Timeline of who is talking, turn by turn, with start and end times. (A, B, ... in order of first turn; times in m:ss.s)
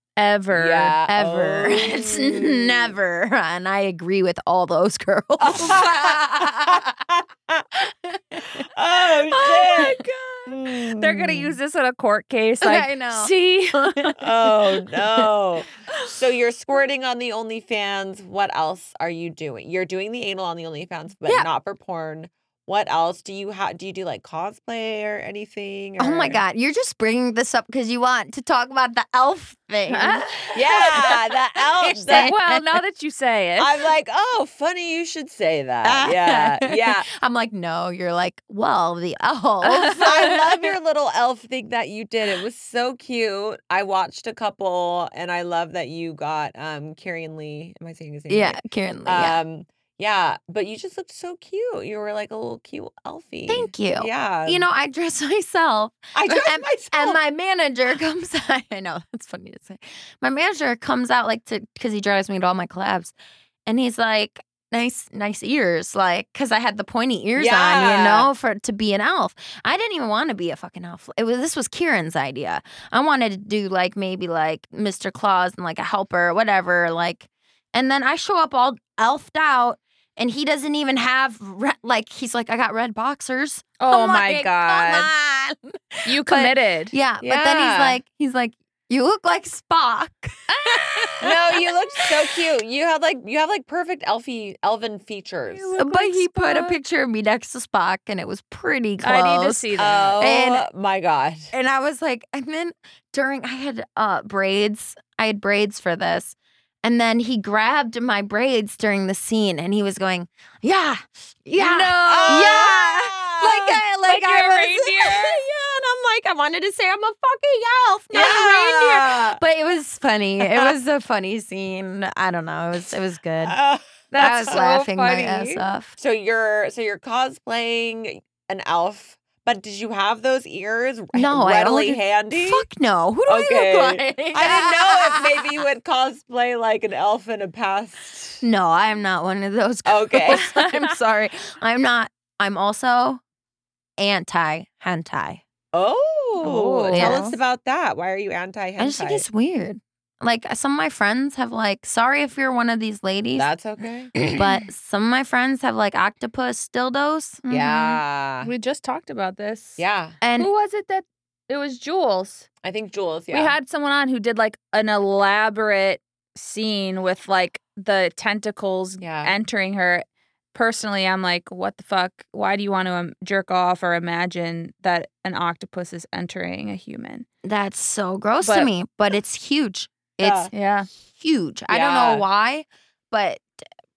0:00.2-0:01.0 A
0:00.5-0:02.9 B
0:01.1-0:06.8 C
0:05.4-0:07.6 B
0:08.0-0:08.5 C
0:08.6-0:11.6 B
0:09.3-0:14.1 A
0:12.6-0:14.2 C
0:14.2-0:26.4 B
0:14.8-0:15.3 C
0:26.0-0:31.1 C
0:29.9-0:30.8 A
0:30.5-0:32.3 B
0:31.8-0:32.6 C
0:32.1-0:33.8 A
0:33.6-0:37.1 B
0:35.8-0:40.6 C
0:39.6-0:40.3 A
0:40.0-0:54.6 B
0:48.3-0:49.4 C
0:53.5-1:03.1 C
0:56.1-0:57.2 B
1:03.6-1:32.0 C
1:07.4-1:08.3 B
1:23.8-1:25.1 A
1:26.0-1:26.9 A
1:27.2-1:28.0 B
1:30.5-1:31.3 A
1:31.2-1:35.7 B
1:35.5-1:36.8 A
1:35.8-1:40.6 C
1:39.0-1:40.1 A
1:39.8-1:41.5 B
1:41.5-2:03.6 C
1:51.6-1:52.7 A
1:52.0-1:53.8 B
1:54.0-1:55.4 A
1:58.1-1:59.4 B
2:00.4-2:00.7 B
2:03.4-2:04.6 B
2:04.1-2:05.6 A
2:04.2-2:05.9 C
2:06.0-2:12.6 B
2:11.1-2:15.4 C
2:13.3-2:18.4 B
2:18.4-2:23.2 C
2:19.8-2:20.4 B
2:24.0-2:25.4 C
2:25.7-2:29.2 B
2:26.4-2:27.4 A
2:26.9-2:27.3 C
2:28.8-2:33.5 C
2:33.4-2:34.2 B
2:34.2-2:37.4 C
2:37.4-2:39.8 A
2:37.5-2:38.5 B
2:39.8-2:40.2 B
2:40.2-2:40.5 C
2:40.4-2:42.5 A
2:42.6-2:43.6 B
2:43.3-2:57.3 A
2:49.0-2:49.3 B
2:57.4-3:03.6 C
2:58.4-2:58.7 A
3:00.2-3:00.5 B
3:00.5-3:00.9 A
3:01.7-3:02.2 B